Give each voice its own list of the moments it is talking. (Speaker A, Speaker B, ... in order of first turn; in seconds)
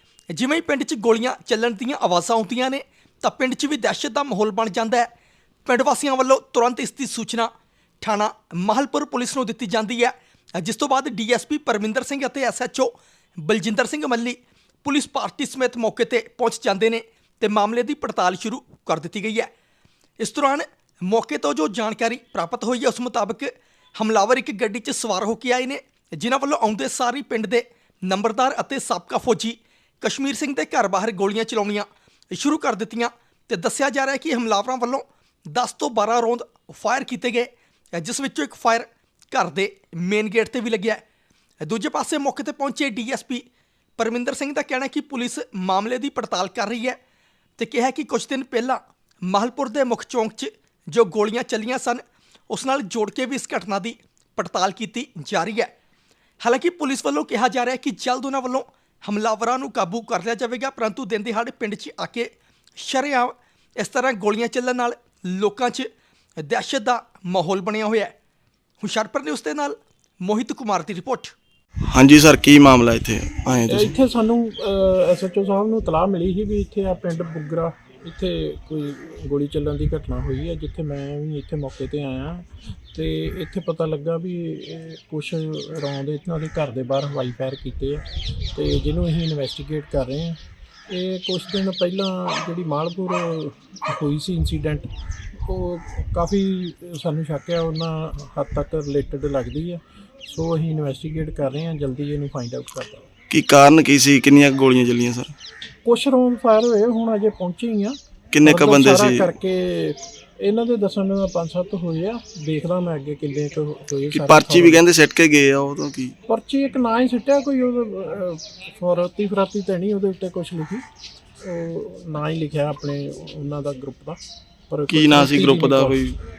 Speaker A: 0.3-5.1, 5.7-7.5, 8.0-12.9, 13.4-19.5, 20.2-41.0, 41.6-43.4, 44.0-47.0, 47.6-55.7, 56.4-65.9, 66.4-68.1, 68.8-71.3
Speaker B: 71.9-73.9, 103.3-105.3, 108.3-109.3, 114.1-116.1, 124.9-126.2
Speaker C: 73.7-94.9, 95.4-103.1, 105.8-114.8, 116.3-120.8, 121.4-124.2, 124.7-126.2